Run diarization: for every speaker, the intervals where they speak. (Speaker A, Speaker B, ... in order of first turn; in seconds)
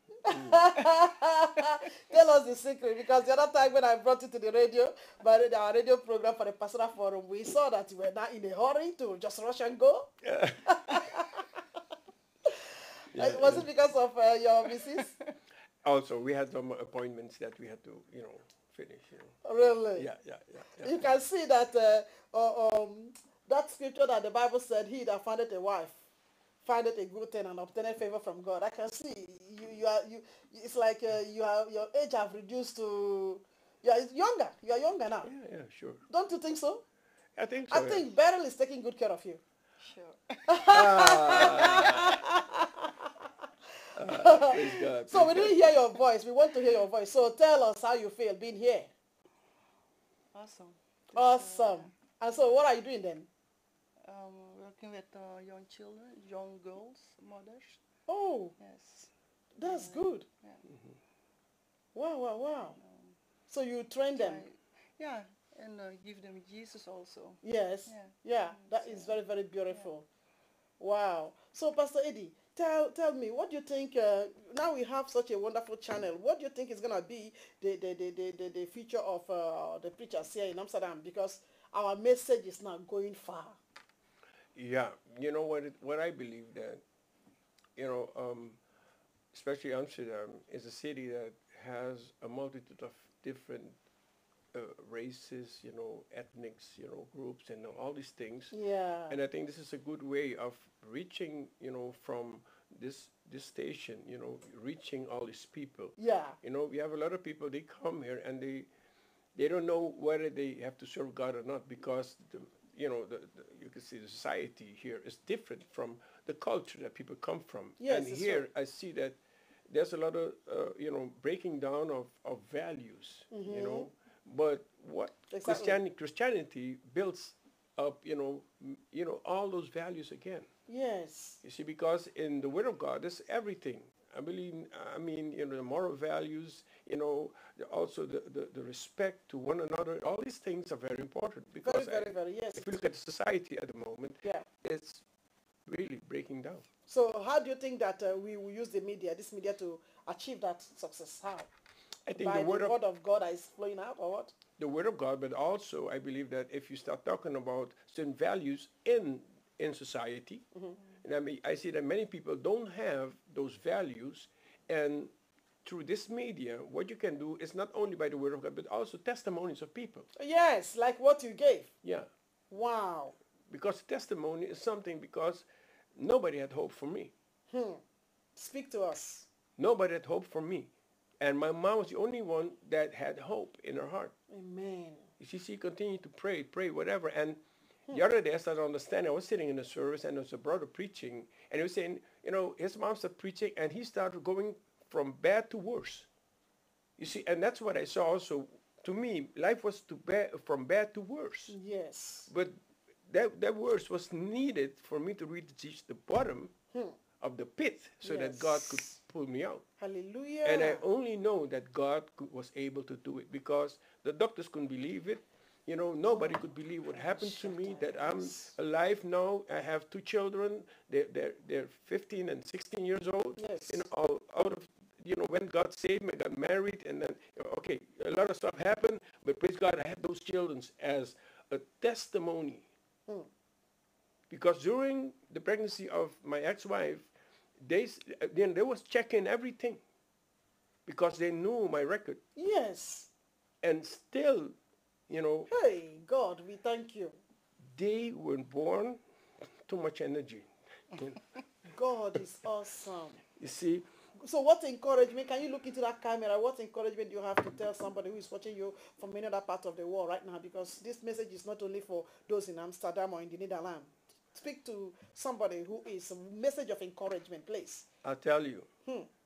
Speaker A: 0.2-10.1, 10.7-11.5, 13.2-15.1, 19.4-20.1, 20.8-26.0, 26.6-35.3, 36.1-36.8, 37.7-39.4, 40.5-43.3, 44.0-48.9, 51.1-53.3, 58.1-58.5, 59.6-60.3, 61.9-62.8, 63.5-64.4, 67.4-70.0, 70.8-83.6, 98.5-99.2, 106.0-106.4, 117.8-118.5, 123.3-123.9, 125.3-125.8, 130.7-131.4, 141.6-142.7, 146.9-151.5, 152.2-154.3, 170.2-171.7, 172.5-173.2, 177.5-177.8, 178.4-179.3, 184.3-185.1, 201.5-202.3, 208.0-208.9, 209.8-210.8, 216.9-218.5, 223.4-223.9, 242.4-243.1, 245.5-247.2, 251.7-253.2, 254.2-267.9
Speaker B: 10.2-11.0, 13.1-13.7, 15.8-19.4, 20.0-21.1, 35.2-36.0, 37.4-38.1, 40.7-42.2, 44.0-45.6, 60.7-60.9, 84.6-86.8, 87.8-88.6, 89.3-93.8, 94.5-98.5, 99.1-108.7, 109.3-130.5, 131.4-145.0, 145.7-146.7, 152.1-152.8, 154.6-160.4, 161.0-165.1, 165.7-170.1, 171.8-172.1, 173.5-175.4, 176.0-177.1, 179.6-184.1, 185.2-187.4, 187.9-196.1, 197.0-201.6, 202.3-202.6, 203.1-206.5, 207.2-209.7, 210.4-232.7, 234.3-237.1, 237.7-239.8, 240.9-242.2, 243.6-244.5, 245.1-245.5, 247.7-249.0, 249.7-251.2, 253.4-253.9, 268.0-268.7
Speaker C: 39.8-42.0, 50.3-51.9, 54.0-57.8, 58.6-59.1, 59.6-60.6, 62.6-63.1, 64.2-69.9